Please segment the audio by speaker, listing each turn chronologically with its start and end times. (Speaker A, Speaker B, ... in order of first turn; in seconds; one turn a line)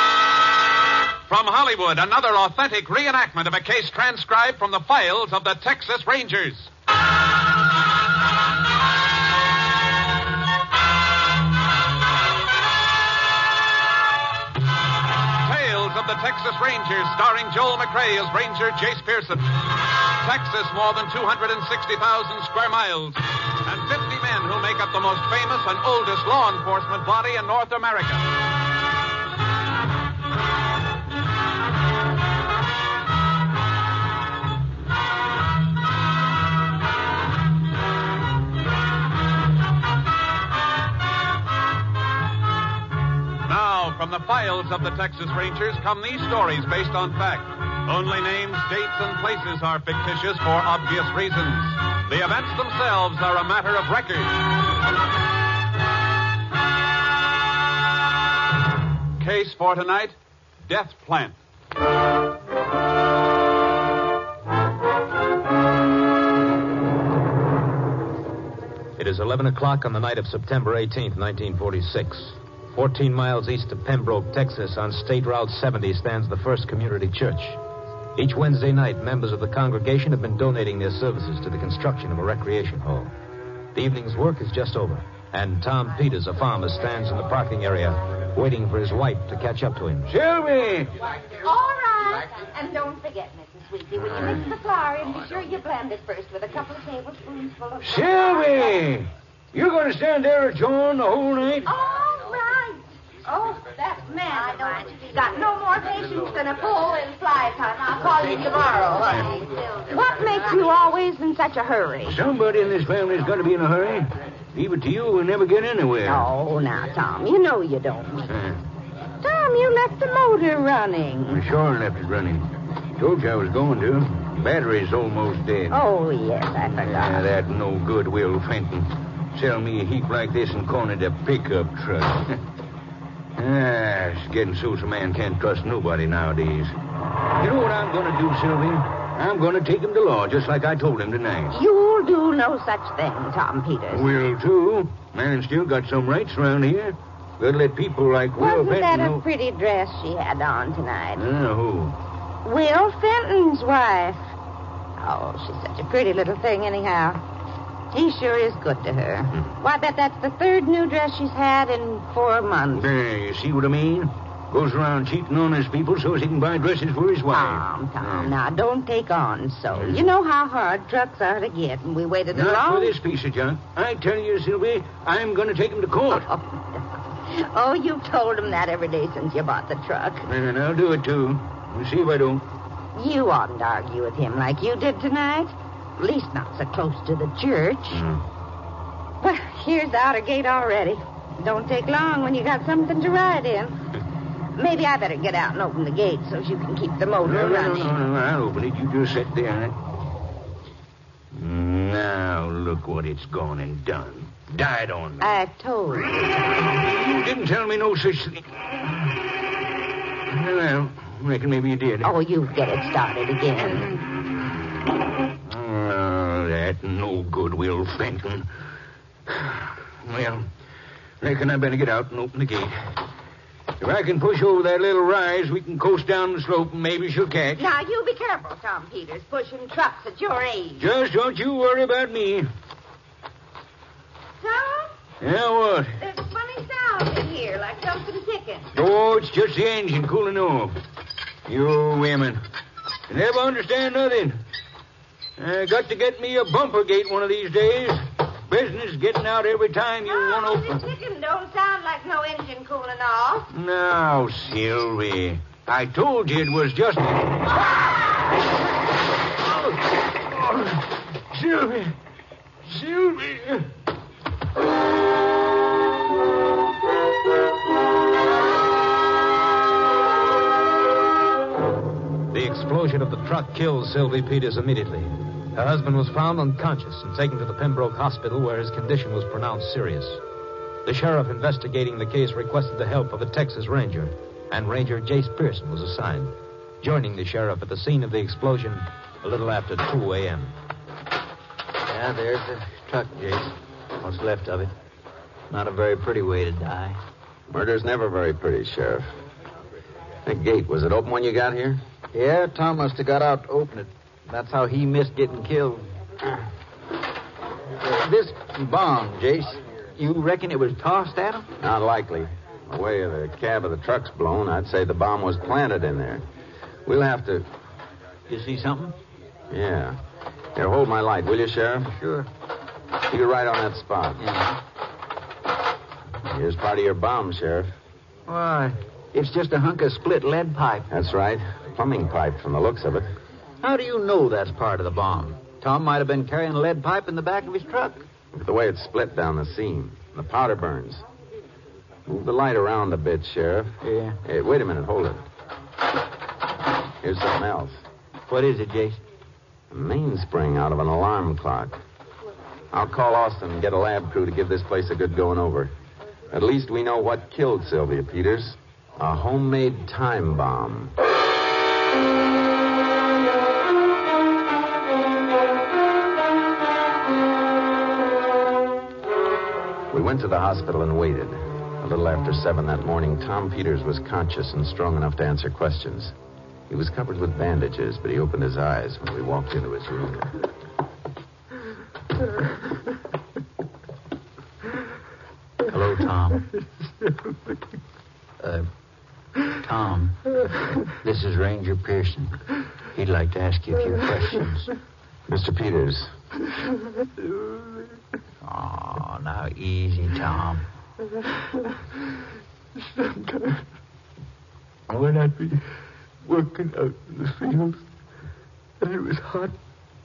Speaker A: 1.3-6.7
Speaker A: 15.4-28.3
Speaker A: 43.4-54.4
Speaker A: 59.2-61.3
Speaker B: 69.0-77.6
Speaker B: 78.2-83.1
Speaker B: 83.7-90.1
Speaker C: 90.1-90.9
Speaker D: 91.2-98.9
Speaker C: 97.8-101.7
Speaker D: 101.7-112.2
Speaker C: 112.0-116.3
Speaker D: 116.0-118.3
Speaker C: 118.3-118.6
Speaker D: 119.2-121.4
Speaker C: 121.3-122.5
Speaker C: 123.0-125.8
Speaker D: 125.7-127.2
Speaker C: 126.7-132.4
Speaker C: 133.4-136.7
Speaker C: 137.4-141.6
Speaker D: 141.5-144.1
Speaker C: 143.9-149.2
Speaker D: 148.4-151.2
Speaker C: 151.2-151.9
Speaker D: 152.4-154.2
Speaker D: 155.0-157.2
Speaker D: 157.9-162.9
Speaker C: 162.7-168.3
Speaker D: 167.3-172.9
Speaker C: 169.7-170.0
Speaker C: 172.3-176.3
Speaker D: 176.1-180.2
Speaker C: 180.2-182.4
Speaker D: 182.9-188.0
Speaker C: 187.9-188.2
Speaker D: 189.2-193.8
Speaker D: 194.6-198.0
Speaker C: 197.2-199.8
Speaker C: 201.3-205.3
Speaker D: 205.2-206.7
Speaker C: 206.6-208.5
Speaker C: 210.3-212.1
Speaker D: 212.0-214.0
Speaker C: 213.7-214.0
Speaker C: 215.5-218.5
Speaker C: 219.3-220.4
Speaker C: 221.2-222.8
Speaker C: 223.8-227.6
Speaker D: 227.6-230.8
Speaker C: 230.8-232.5
Speaker D: 234.4-234.9
Speaker C: 235.2-235.9
Speaker D: 236.0-238.7
Speaker C: 238.7-240.8
Speaker C: 241.5-242.4
Speaker C: 243.1-244.4
Speaker C: 245.4-250.8
Speaker D: 250.1-253.5
Speaker C: 253.5-257.5
Speaker C: 260.3-260.8
Speaker C: 261.3-261.9
Speaker C: 262.6-263.6
Speaker B: 272.3-280.2
Speaker B: 280.9-286.3
Speaker B: 286.8-290.5
Speaker E: 291.9-294.7
Speaker E: 295.5-297.0
Speaker F: 297.5-299.1
Speaker F: 300.2-301.8
Speaker E: 302.1-305.9
Speaker E: 307.8-311.5
Speaker F: 311.6-316.2
Speaker F: 316.9-317.5
Speaker E: 318.3-318.9
Speaker F: 319.5-320.0
Speaker F: 320.5-321.9
Speaker E: 321.9-322.3
Speaker F: 323.1-324.2
Speaker E: 324.2-324.6
Speaker F: 326.3-327.7
Speaker E: 328.3-330.9
Speaker F: 330.9-333.1
Speaker E: 333.6-338.0
Speaker F: 338.3-341.0
Speaker F: 342.1-345.2
Speaker E: 343.8-344.2
Speaker F: 347.0-347.8
Speaker E: 348.3-349.0
Speaker F: 349.7-351.8
Speaker F: 352.7-355.7
Speaker F: 356.3-360.9
Speaker F: 369.9-376.1
Speaker F: 376.7-380.3
Speaker E: 385.6-386.4
Speaker E: 388.4-388.7
Speaker E: 389.5-390.2
Speaker E: 391.0-392.4
Speaker E: 392.9-394.7
Speaker F: 395.3-396.1
Speaker E: 398.4-400.6
Speaker G: 403.2-403.6
Speaker G: 405.0-405.5
Speaker G: 406.3-407.8
Speaker G: 408.8-409.5